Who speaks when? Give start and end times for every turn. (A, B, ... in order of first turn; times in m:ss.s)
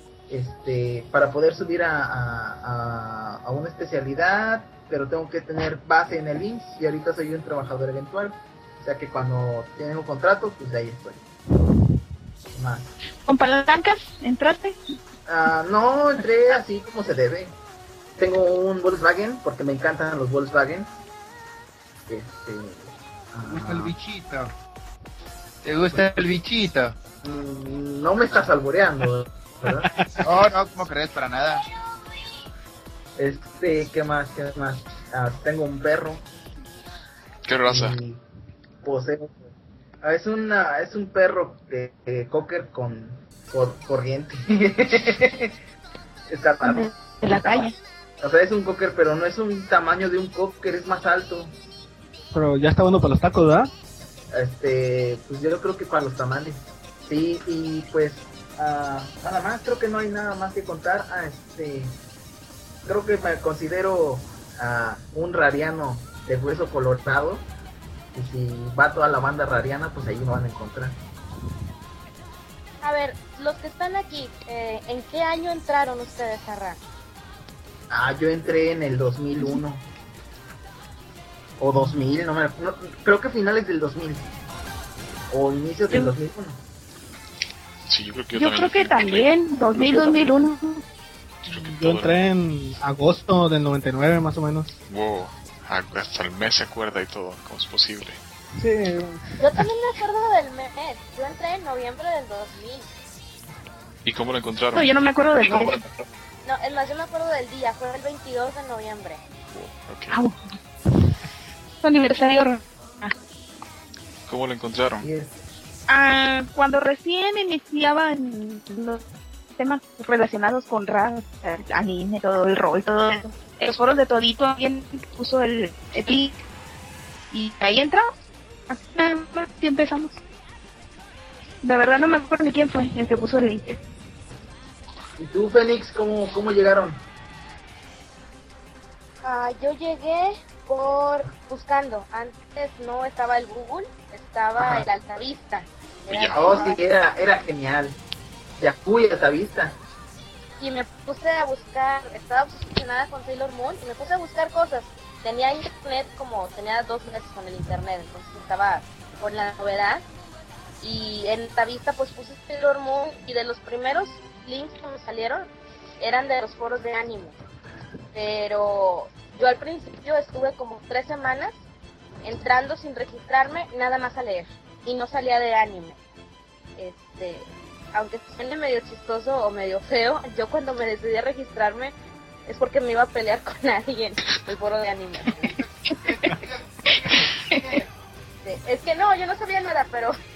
0:00.3-0:11.2 A
0:12.5-0:12.9 A
0:13.2-0:14.8 B
0:15.2-0:17.6 A
0:18.2-0:20.9 A
0:22.1-0:23.9 A
0:23.4-0:24.5 C
0:25.6-0:27.0 C
0:27.2-0:29.9 A
0:30.2-0:31.6 C
0:33.2-0:36.2 A
0:37.4-0:38.0 D
0:37.6-0:38.2 A
0:38.8-0:39.4 A
0:40.0-0:45.6 A
0:46.3-0:47.7 A
0:46.6-0:47.7 B
0:48.2-0:51.5 A
0:52.3-0:53.7 E
0:54.3-1:01.9 A
1:02.8-1:07.4 A
1:08.1-1:11.0 A
1:12.8-1:16.8 F
1:17.9-1:19.8 A
1:21.6-1:24.3 A
1:25.3-1:26.6 A
1:27.9-1:29.2 D
1:28.3-1:30.8 B
1:31.4-1:32.2 D
1:31.5-1:34.7 E
1:34.9-1:38.2 D
1:38.6-1:39.3 E
1:39.4-1:42.9 F
1:44.0-1:44.9 D
1:44.7-1:45.8 B
1:46.4-1:49.2 F
1:49.5-1:50.2 D
1:50.1-1:50.4 B
1:51.8-1:53.1 B
1:54.3-1:55.1 D
1:55.0-1:55.4 A
1:55.9-1:59.0 B
1:59.6-2:06.4 B
2:07.3-2:08.0 B
2:08.7-2:10.2 B
2:11.6-2:13.8 B
2:15.2-2:17.0 A
2:19.2-2:26.8 F
2:24.6-2:24.9 A
2:26.1-2:26.7 D
2:26.3-2:28.0 A
2:28.6-2:29.8 A
2:30.6-2:40.0 F
2:40.8-2:45.5 F
2:46.0-2:47.4 F
2:48.1-2:51.6 F
2:52.2-2:56.0 F
2:56.8-3:01.9 F
3:02.5-3:05.4 F
3:05.4-3:07.8 C
3:05.9-3:06.4 B
3:06.9-3:07.7 B
3:08.4-3:10.1 F